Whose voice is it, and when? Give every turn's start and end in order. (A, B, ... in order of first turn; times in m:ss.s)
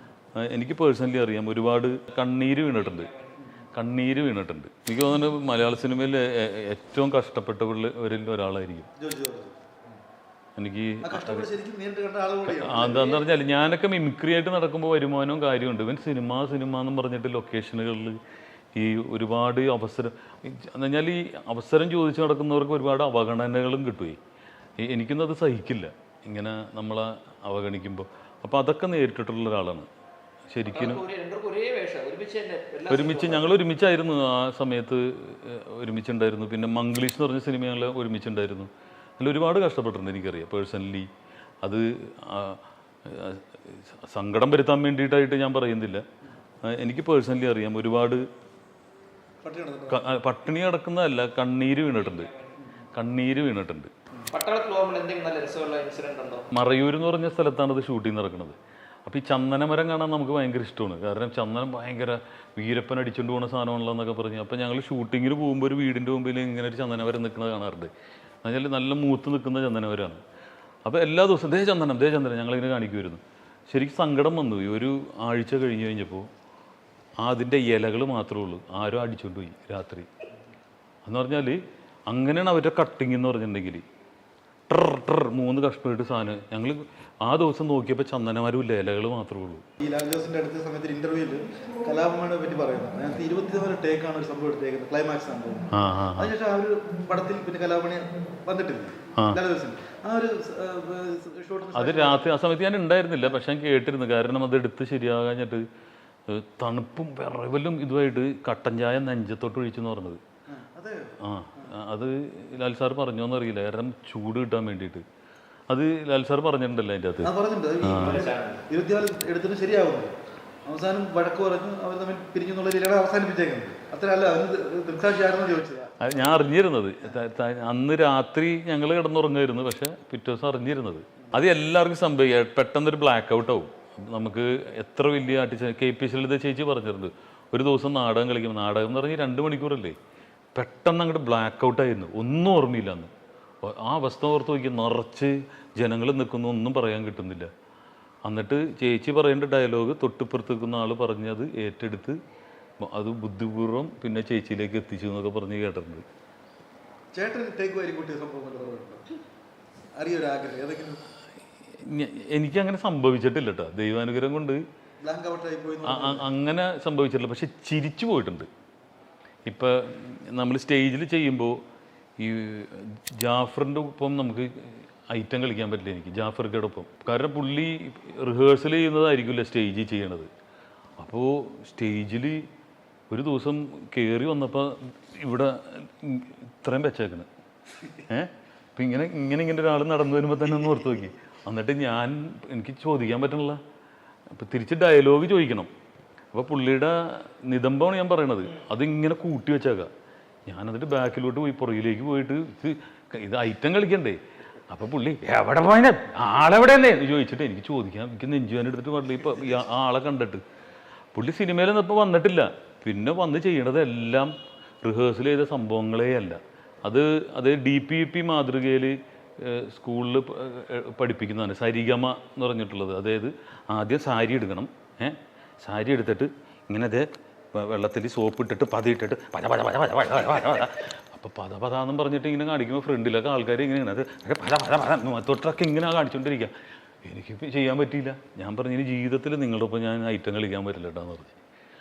0:00.4-0:03.1 A
0:03.7-0:08.9 A
0:09.0-0:09.6 B
0:10.6-0:11.5 A
0:11.0-0:13.3 B
0:12.4-0:18.2 A
0:18.7-0:24.2 A
0:24.8-0:29.9 A
0:30.5-0:31.0 A
0:30.6-0:33.5 C
0:32.9-0:41.1 A
0:41.6-0:46.0 A
0:46.6-0:48.2 A
0:49.4-0:50.0 B
0:49.9-0:52.3 A
0:52.9-0:53.9 A
0:54.3-0:56.5 C
0:56.5-1:07.9 A
1:08.4-1:10.2 A
1:10.8-1:16.3 A
1:17.2-1:20.1 A
1:21.0-1:23.8 A
1:24.7-1:29.6 A
1:29.8-1:42.4 B
1:35.7-1:36.3 A
1:41.7-1:45.6 A
1:46.3-1:50.2 A
1:50.5-1:51.7 B
1:51.2-1:55.0 A
1:55.7-1:58.2 A
1:57.2-2:06.1 B
1:58.0-1:58.6 C
2:06.0-2:20.0 A
2:20.5-2:23.1 A
2:23.6-2:27.5 A
2:28.2-2:32.2 A
2:32.8-2:36.0 A
2:37.1-2:39.0 B
2:39.9-2:41.0 B
2:41.7-2:44.6 A
2:45.0-2:46.3 B
2:45.8-2:48.5 A
2:49.4-2:51.6 A
2:52.2-3:00.3 A
3:01.0-3:02.5 A
3:03.1-3:07.3 A
3:07.9-3:13.6 A
3:14.3-3:15.7 A
3:16.3-3:19.9 A
3:20.4-3:30.4 A
3:31.1-3:56.5 A
3:57.0-4:01.4 A